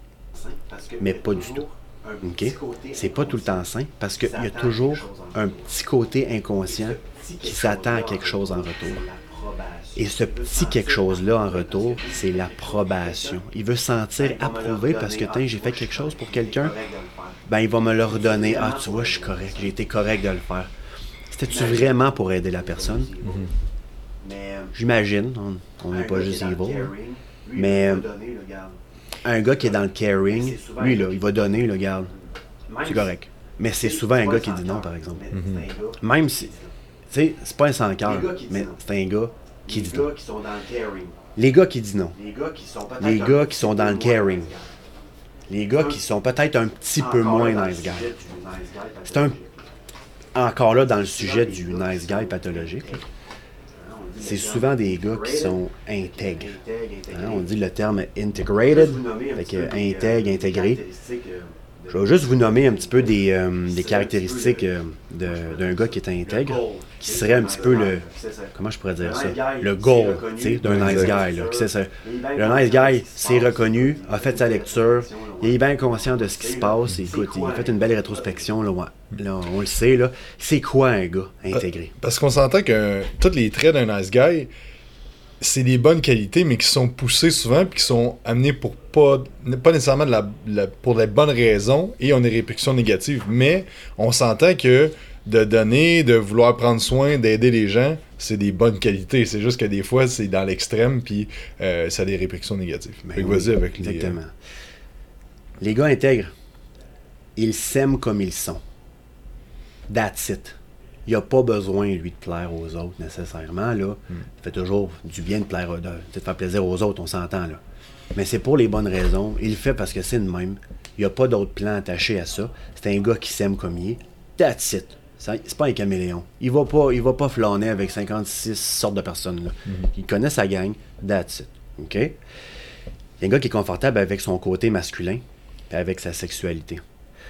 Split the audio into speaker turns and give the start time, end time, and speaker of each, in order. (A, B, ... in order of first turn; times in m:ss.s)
0:00.4-0:03.7 A
0:01.0-0:01.7 B
0:02.2-0:09.1 B
0:04.2-0:05.5 A
0:06.7-0:13.4 A
0:10.0-0:16.8 B
0:14.2-0:17.4 A
0:17.5-0:20.7 B
0:18.1-0:19.9 A
0:21.3-0:23.2 B
0:21.5-0:23.4 A
0:23.2-0:23.5 C
0:24.2-0:24.7 A
0:24.8-0:27.0 B
0:25.9-0:28.7 A
0:27.5-0:28.1 B
0:29.2-0:32.1 B
0:29.8-0:31.7 A
0:32.7-0:33.1 A
0:32.8-0:35.4 B
0:33.8-0:36.0 A
0:35.3-0:35.7 C
0:35.9-0:36.6 B
0:37.1-0:40.1 B
0:38.0-0:38.8 A
0:39.7-0:41.3 A
0:41.3-0:42.2 B
0:42.2-0:44.7 A
0:43.0-0:44.6 B
0:45.5-0:48.2 B
0:47.0-0:49.5 A
0:49.1-0:49.4 B
0:50.4-0:53.1 B
0:50.9-0:53.0 A
0:53.8-0:55.6 A
0:54.2-1:00.8 B
0:56.2-0:57.5 A
0:58.5-1:18.4 A
1:01.9-1:21.9 B
1:10.6-1:11.2 C
1:21.6-1:24.5 C
1:25.4-1:44.2 C
1:43.1-1:44.3 B
1:45.6-1:46.3 B
1:47.4-1:48.6 B
1:49.9-1:57.6 B
1:58.1-2:12.1 B
2:13.2-2:16.8 B